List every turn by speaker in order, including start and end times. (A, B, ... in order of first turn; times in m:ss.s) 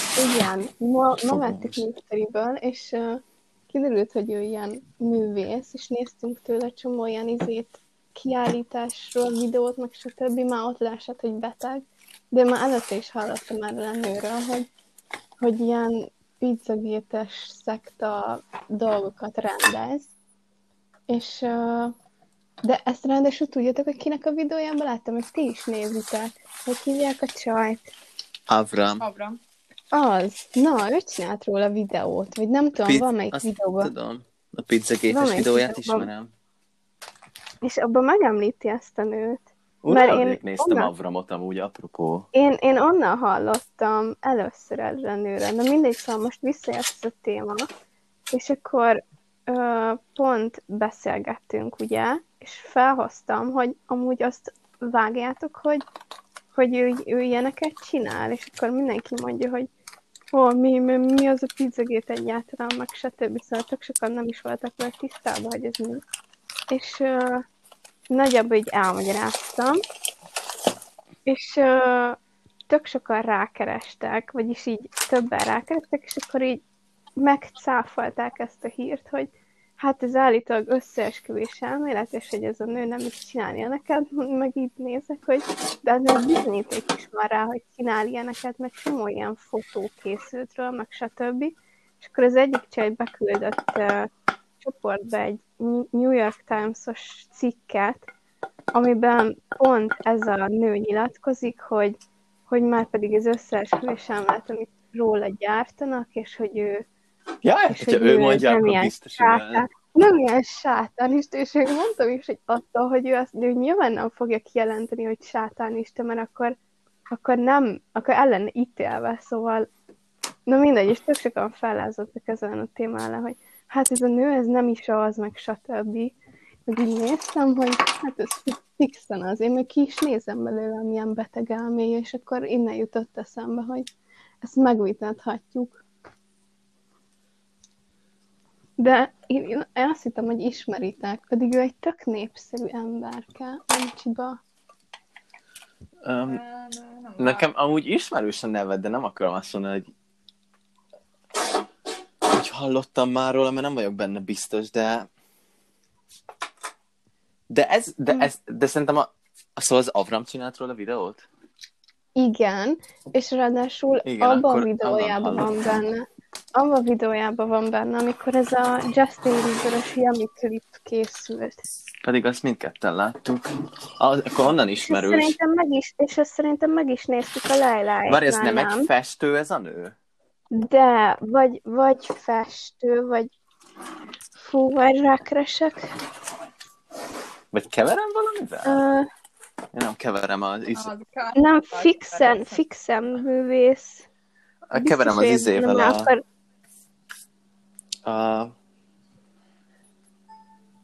0:00.1-0:14.7 A
0:01.3-0:01.8 B
0:15.4-0:20.1 A
0:21.1-0:21.9 A
0:22.6-0:27.9 A
0:28.5-0:29.0 B
0:29.0-0:29.4 C
0:29.9-0:33.9 A
0:32.7-0:36.3 B
0:35.1-0:36.1 A
0:37.6-0:40.9 A
0:39.8-0:42.3 B
0:42.3-0:47.7 A
0:48.3-0:55.8 A
0:56.5-0:59.7 A
1:00.3-1:06.0 A
1:06.7-1:07.4 A
1:08.1-1:09.8 A
1:11.2-1:16.6 A
1:17.2-1:34.1 A
1:34.6-1:38.1 A
1:38.7-1:46.8 A
1:47.4-1:49.6 B
1:47.7-1:56.6 A
1:57.1-1:59.7 A
2:00.4-2:06.1 A
2:06.7-2:13.9 A
2:14.4-2:15.8 A
2:18.8-2:24.4 A
2:26.0-2:26.4 B
2:26.3-2:27.4 C
2:27.2-2:29.9 B
2:32.3-2:35.1 B
2:37.5-2:41.2 B
2:42.2-2:51.6 A
2:44.0-2:45.5 B
2:52.0-2:53.5 B
2:54.0-2:55.3 B
2:54.8-2:58.9 A
2:58.1-3:00.0 B
3:00.5-3:03.3 A
3:04.4-3:06.0 A
3:07.5-3:08.8 B
3:08.6-3:09.1 A
3:09.7-3:10.9 B
3:10.7-3:12.6 C
3:11.4-3:14.0 A
3:14.7-3:16.1 B
3:14.7-3:16.2 A
3:18.0-3:18.5 B